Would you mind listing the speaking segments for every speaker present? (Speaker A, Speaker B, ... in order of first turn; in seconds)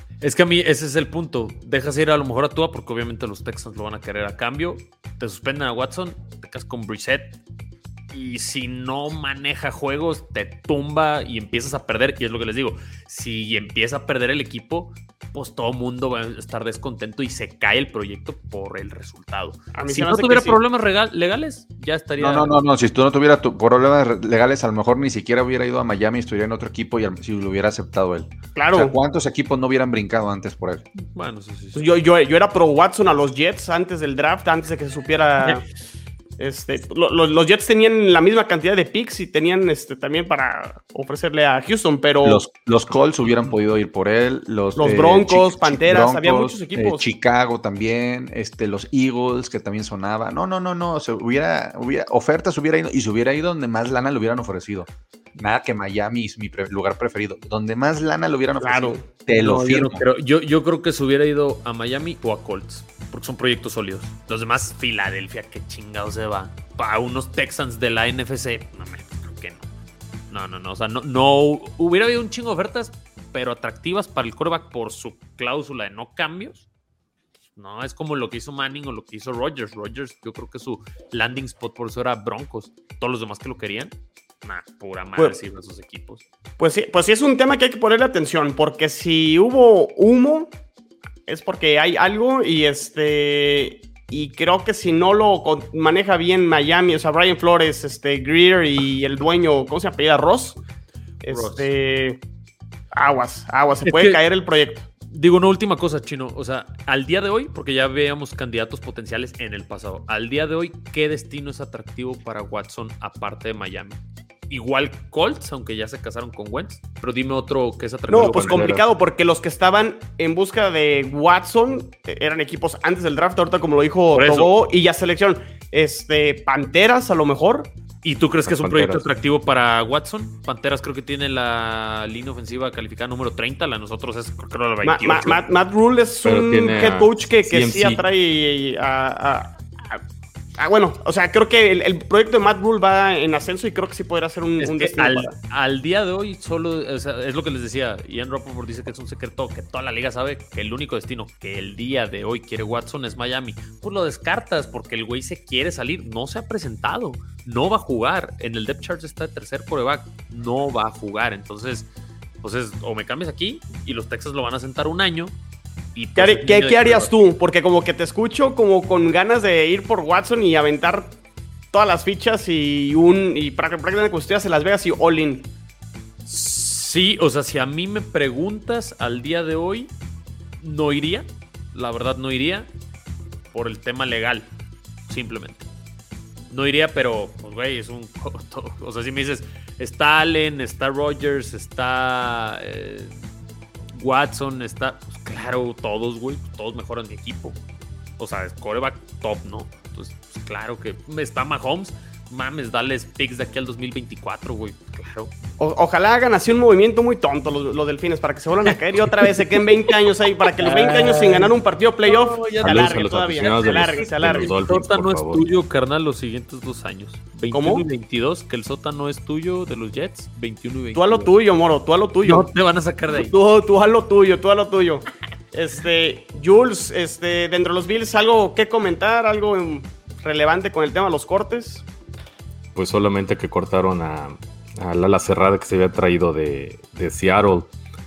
Speaker A: 0.2-7.4, 8.1-22.6, 31.0-31.9, 59.3-69.7, 70.3-76.7, 77.6-83.9, 84.4-86.2, 101.3-101.7, 103.8-104.2, 105.1-118.8, 124.1-124.5, 128.0-135.4, 144.6-161.9, 162.4-165.3, 165.9-167.1, 176.3-179.9, 180.6-182.7, 183.5-184.5, 185.1-185.7, 186.5-193.2, 193.9-197.6, 198.2-205.3, 210.6-221.4, 222.2-223.3
Speaker B: 19.7-20.6, 28.6-28.9, 31.8-35.6, 36.4-42.4, 44.8-47.0, 58.6-59.0, 86.6-90.5, 91.3-100.6, 101.2-102.2, 103.0-104.9, 118.1-127.7, 134.8-140.0, 140.6-145.3, 166.2-171.2, 171.7-175.5, 205.6-214.5, 217.5-217.8, 220.9-222.5, 223.1-231.8
Speaker C: 22.2-30.9, 42.2-60.0
Speaker D: 118.1-118.8, 128.4-129.1, 136.2-138.0, 212.6-215.5, 232.8-237.7